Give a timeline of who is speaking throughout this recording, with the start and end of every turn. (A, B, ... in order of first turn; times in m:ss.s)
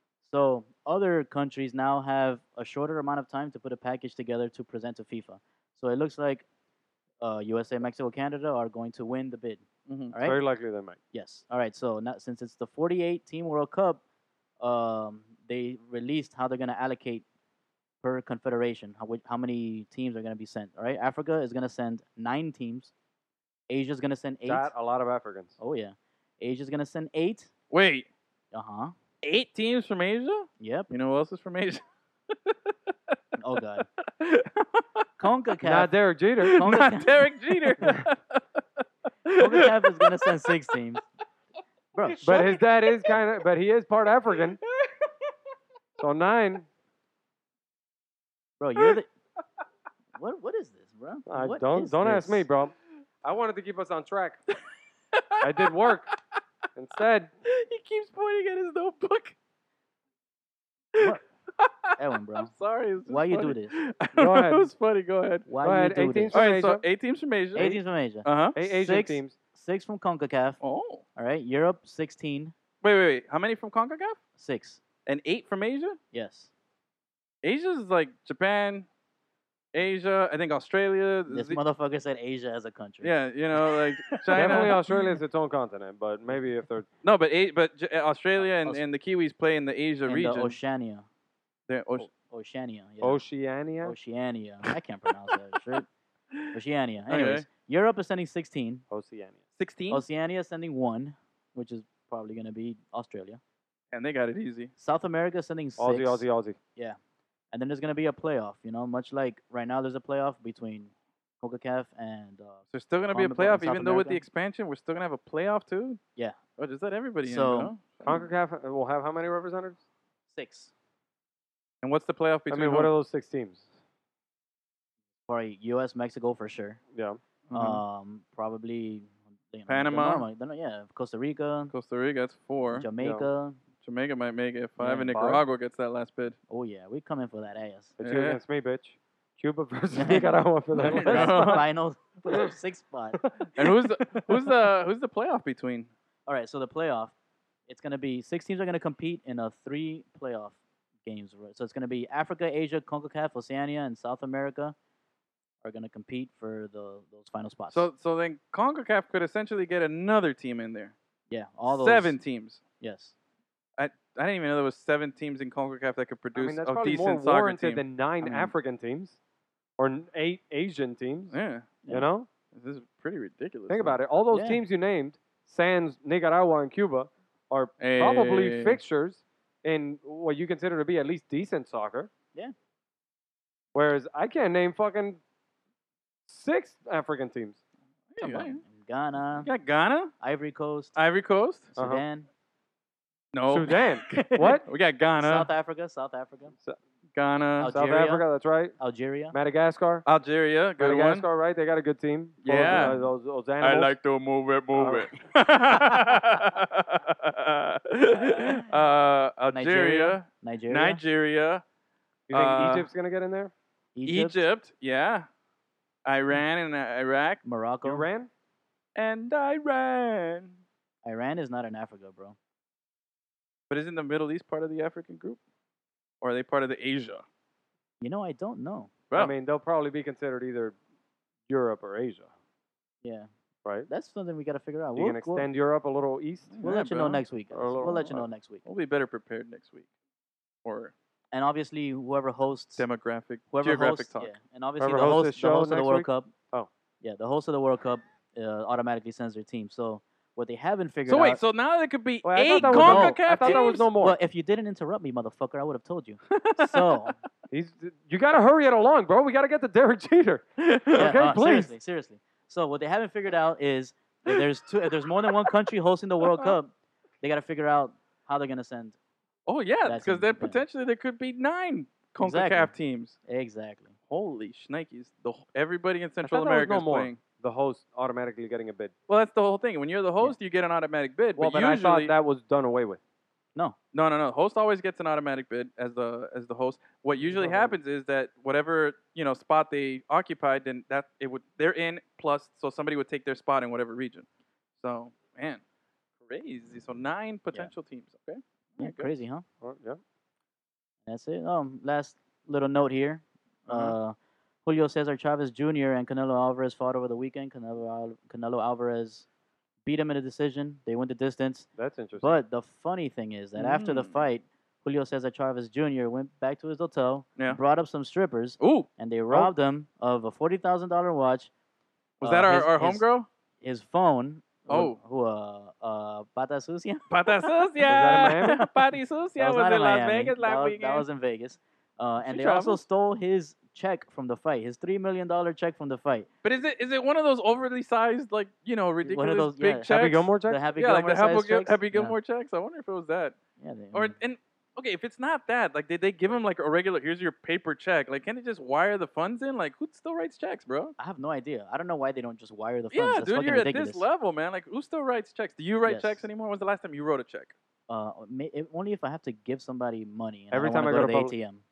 0:00.2-0:06.4 A
0:07.2-0:10.4 A
0:09.9-0:10.1 B
0:10.2-0:11.0 C
0:11.1-0:14.0 A
0:14.6-0:17.2 A
0:18.0-0:22.9 A
0:23.7-0:24.7 A
0:24.4-0:25.6 C
0:25.6-0:27.5 A
0:27.7-0:28.1 B
0:28.5-0:28.9 A
0:29.2-0:32.7 B
0:30.6-0:30.9 A
0:33.4-0:33.9 A
0:34.2-0:35.0 B
0:35.2-0:35.9 A
0:35.6-0:36.5 C
0:36.4-0:40.3 B
0:36.4-0:37.3 A
0:39.3-0:41.0 A
0:41.9-0:42.6 A
0:42.0-0:42.6 B
0:42.2-0:44.6 C
0:46.0-0:46.7 C
0:48.6-0:49.1 A
0:50.1-0:52.4 A
0:51.3-0:54.4 C
0:55.1-0:56.2 B
0:55.4-0:56.1 C
0:56.7-0:57.3 C
0:57.4-0:59.3 B
1:00.9-1:05.5 B
1:02.0-1:02.5 A
1:03.0-1:03.8 A
1:04.1-1:04.7 C
1:05.4-1:06.4 A
1:05.6-1:06.8 C
1:06.3-1:08.6 B
1:07.5-1:10.6 A
1:08.5-1:09.3 C
1:10.6-1:11.0 B
1:11.2-1:12.5 A
1:12.8-1:14.2 B
1:14.4-1:14.8 A
1:15.0-1:16.0 B
1:16.1-1:16.5 A
1:17.4-1:18.8 B
1:19.7-1:21.6 B
1:21.3-1:24.8 A
1:23.0-1:24.8 B
1:24.3-1:26.9 C
1:27.0-1:30.6 B
1:28.4-1:28.8 A
1:30.1-1:31.0 A
1:31.7-1:32.1 B
1:32.1-1:33.2 A
1:33.0-1:33.9 C
1:33.8-1:35.8 A
1:36.5-1:38.8 A
1:37.1-1:37.4 B
1:38.9-1:39.4 C
1:39.6-1:40.0 B
1:39.9-1:43.4 A
1:43.9-1:44.7 B
1:44.8-1:47.0 A
1:45.8-1:46.6 C
1:47.5-1:54.2 A
1:52.7-1:56.0 B
1:56.6-1:58.3 B
1:57.2-1:57.7 A
1:58.0-1:59.8 C
2:00.3-2:00.7 A
2:01.8-2:02.9 B
2:02.5-2:03.6 C
2:05.3-2:06.8 A
2:06.9-2:07.2 C
2:07.5-2:07.8 B
2:07.5-2:11.7 A
2:09.7-2:10.2 B
2:11.7-2:12.9 B
2:12.7-2:13.6 A
2:13.0-2:13.3 C
2:13.8-2:16.4 B
2:14.8-2:15.3 A
2:15.1-2:15.4 C
2:16.5-2:17.9 A
2:18.0-2:18.4 B
2:18.0-2:21.6 C
2:19.9-2:23.4 A
2:20.8-2:21.6 B
2:23.2-2:23.5 C
2:23.5-2:25.9 B
2:26.3-2:27.1 A
2:27.7-2:34.7 A
2:35.6-2:37.9 A
2:37.7-2:40.9 B
2:41.3-2:42.2 A
2:41.7-2:42.6 B
2:42.8-2:43.1 A
2:43.8-2:48.5 B
2:46.3-2:49.2 C
2:49.8-2:51.4 C
2:51.3-2:51.8 B
2:51.9-2:52.3 C
2:52.5-2:54.0 B
2:53.7-3:02.1 C
2:54.3-2:54.6 A
2:57.8-2:58.8 B
3:03.7-3:05.2 C
3:06.3-3:07.6 C
3:08.1-3:08.6 B
3:08.2-3:09.5 A
3:09.4-3:10.1 B
3:10.2-3:11.0 A
3:11.0-3:11.7 B
3:11.7-3:12.3 A
3:11.8-3:12.0 C
3:13.3-3:13.8 B
3:13.5-3:14.6 C
3:14.0-3:14.6 A
3:14.6-3:15.5 B
3:15.2-3:16.5 A
3:17.2-3:17.7 B
3:17.6-3:18.2 A
3:17.7-3:18.8 C
3:18.8-3:19.3 A
3:19.3-3:20.0 C
3:20.0-3:21.2 B
3:20.8-3:23.9 C
3:22.4-3:23.0 B
3:22.6-3:23.0 A
3:23.6-3:31.6 B
3:24.8-3:25.1 C
3:25.7-3:26.4 A
3:28.4-3:28.6 A
3:29.5-3:31.0 A
3:32.3-3:32.9 B
3:32.3-3:33.5 C
3:33.9-3:34.4 A
3:34.0-3:35.3 B
3:36.0-3:37.4 B
3:37.4-3:38.1 A
3:37.8-3:38.3 C
3:39.0-3:40.6 B
3:41.0-3:42.4 A
3:43.7-3:45.4 B
3:46.2-3:47.2 B
3:48.0-3:49.0 A
3:49.1-3:50.8 C
3:51.5-3:52.3 C
3:53.0-3:53.3 A
3:53.9-3:55.4 A
3:55.0-3:56.5 C
3:56.5-3:57.2 B
3:56.6-3:58.6 A
3:57.5-3:58.3 C
3:57.8-3:58.1 B
3:58.6-3:59.9 B
4:00.6-4:00.9 B
4:01.3-4:02.8 A
4:02.8-4:04.3 B
4:03.5-4:06.3 A
4:04.8-4:06.7 C
4:07.0-4:11.4 A
4:11.1-4:13.9 B
4:12.2-4:14.2 C
4:12.5-4:17.1 A
4:16.3-4:17.1 B
4:17.5-4:21.7 C
4:20.6-4:21.1 B
4:20.9-4:29.0 A
4:25.2-4:25.5 B
4:26.2-4:26.6 B
4:29.5-4:33.2 B
4:29.8-4:30.6 A
4:32.2-4:32.7 A
4:33.3-4:33.9 A
4:34.1-4:37.2 B
4:36.2-4:38.9 C
4:39.1-4:42.1 B
4:41.4-4:43.0 C
4:43.9-4:54.2 B
4:47.3-4:47.8 C
4:54.8-4:55.6 B
4:56.2-4:59.1 B
4:58.8-4:59.4 A
4:59.6-5:00.0 C
5:01.0-5:09.2 A
5:03.7-5:04.0 B
5:09.8-5:11.7 A
5:11.8-5:12.4 C
5:12.2-5:21.5 A
5:13.6-5:14.2 B
5:18.6-5:18.9 B
5:22.2-5:23.3 B
5:22.2-5:23.0 A
5:23.6-5:28.7 A
5:24.7-5:25.0 B
5:27.1-5:31.0 B
5:27.9-5:28.6 C
5:29.4-5:36.3 A
5:32.2-5:32.8 B
5:36.4-5:43.4 B
5:39.0-5:42.2 A
5:39.9-5:40.6 C
5:43.6-5:44.1 A
5:43.9-5:50.9 B
5:51.0-5:54.0 A
5:52.9-5:57.5 B
5:55.8-5:56.3 A
5:57.9-6:01.6 A
6:00.5-6:01.4 C